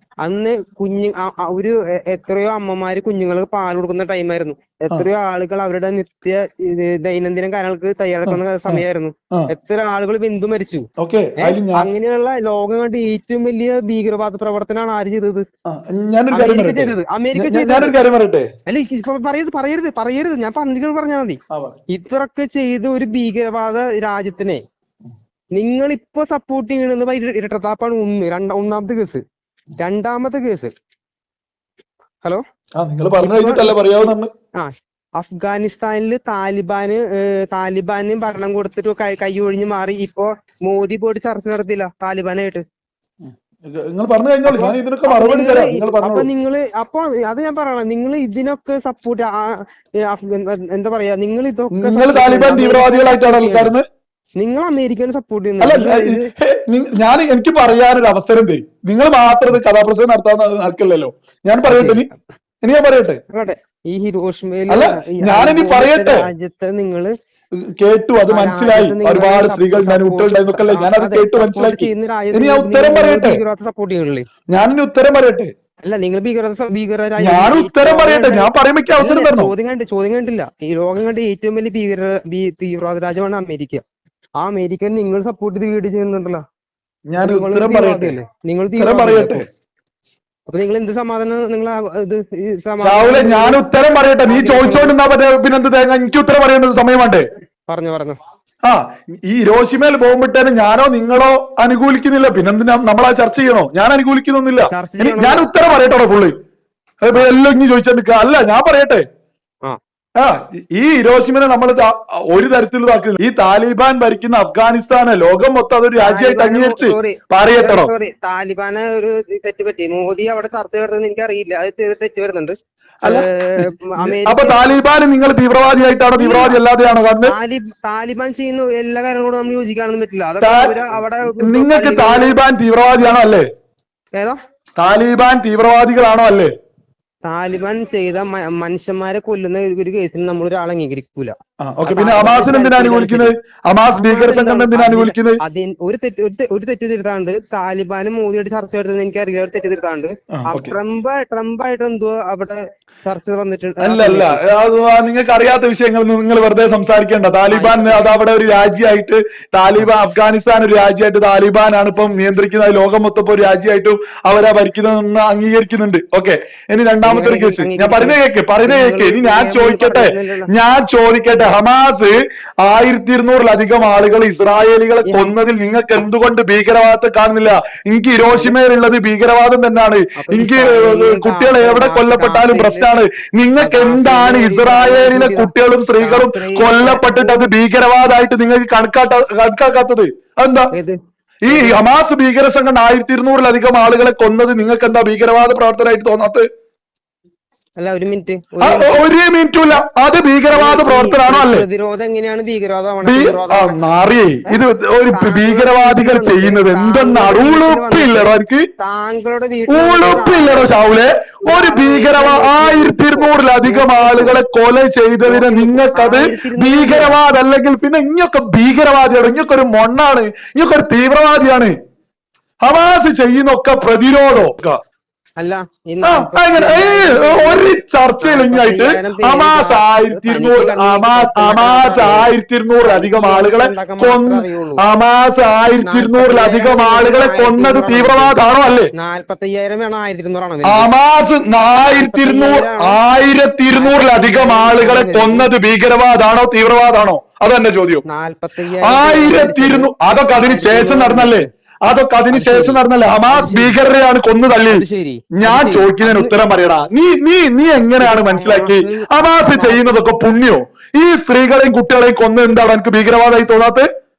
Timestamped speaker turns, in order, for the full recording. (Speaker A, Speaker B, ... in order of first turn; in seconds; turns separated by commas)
Speaker A: 0.2-15.4, Speaker B: 8.3-9.5, Speaker B: 11.0-11.9, Speaker B: 15.7-18.5, Speaker A: 16.3-18.0, Speaker A: 18.7-24.6, Speaker A: 25.6-29.2, Speaker A: 29.8-30.7, Speaker B: 32.8-34.3, Speaker A: 33.2-33.7, Speaker A: 34.6-42.6, Speaker B: 43.3-46.3, Speaker A: 44.5-53.7, Speaker B: 51.7-53.9, Speaker A: 54.4-56.3, Speaker B: 55.6-62.1, Speaker A: 61.7-62.1, Speaker B: 62.6-63.2, Speaker A: 63.3-67.1, Speaker B: 64.7-66.3, Speaker B: 67.6-73.4, Speaker A: 68.3-74.3, Speaker B: 74.5-75.5, Speaker A: 75.8-83.8, Speaker B: 77.2-79.5, Speaker A: 84.4-86.4, Speaker B: 87.1-88.2, Speaker A: 87.2-89.5, Speaker B: 88.8-89.5, Speaker A: 90.5-93.6, Speaker B: 92.8-97.3, Speaker A: 94.3-94.9, Speaker A: 97.7-98.2, Speaker B: 98.6-106.3, Speaker A: 104.7-105.5, Speaker B: 107.0-109.0, Speaker B: 110.2-117.9, Speaker A: 116.0-124.7, Speaker B: 123.0-127.3, Speaker A: 126.2-126.6, Speaker A: 127.2-132.4, Speaker B: 130.4-130.8, Speaker B: 131.4-133.5, Speaker B: 134.8-136.5, Speaker A: 137.2-141.3, Speaker B: 141.6-145.4, Speaker A: 141.9-143.3, Speaker A: 143.9-154.5, Speaker B: 150.4-150.8, Speaker B: 153.8-190.7, Speaker A: 157.5-158.2, Speaker A: 167.0-170.5, Speaker A: 175.1-175.3, Speaker A: 180.2-182.9, Speaker A: 183.6-187.5, Speaker B: 191.5-196.5, Speaker A: 191.5-191.8, Speaker A: 197.8-199.0, Speaker B: 198.6-201.7, Speaker A: 200.5-203.8, Speaker B: 203.1-208.7, Speaker A: 204.5-210.8, Speaker B: 209.7-221.8, Speaker A: 211.4-214.4, Speaker A: 215.2-217.2, Speaker B: 222.6-224.8, Speaker A: 225.4-234.8, Speaker B: 226.0-238.9, Speaker A: 235.8-238.4, Speaker A: 238.9-240.9, Speaker B: 240.7-248.0, Speaker A: 241.8-243.0, Speaker A: 243.7-245.5, Speaker A: 248.1-251.5, Speaker B: 248.8-254.8, Speaker A: 252.3-253.8, Speaker A: 254.7-256.4, Speaker B: 255.4-263.9, Speaker A: 258.0-259.9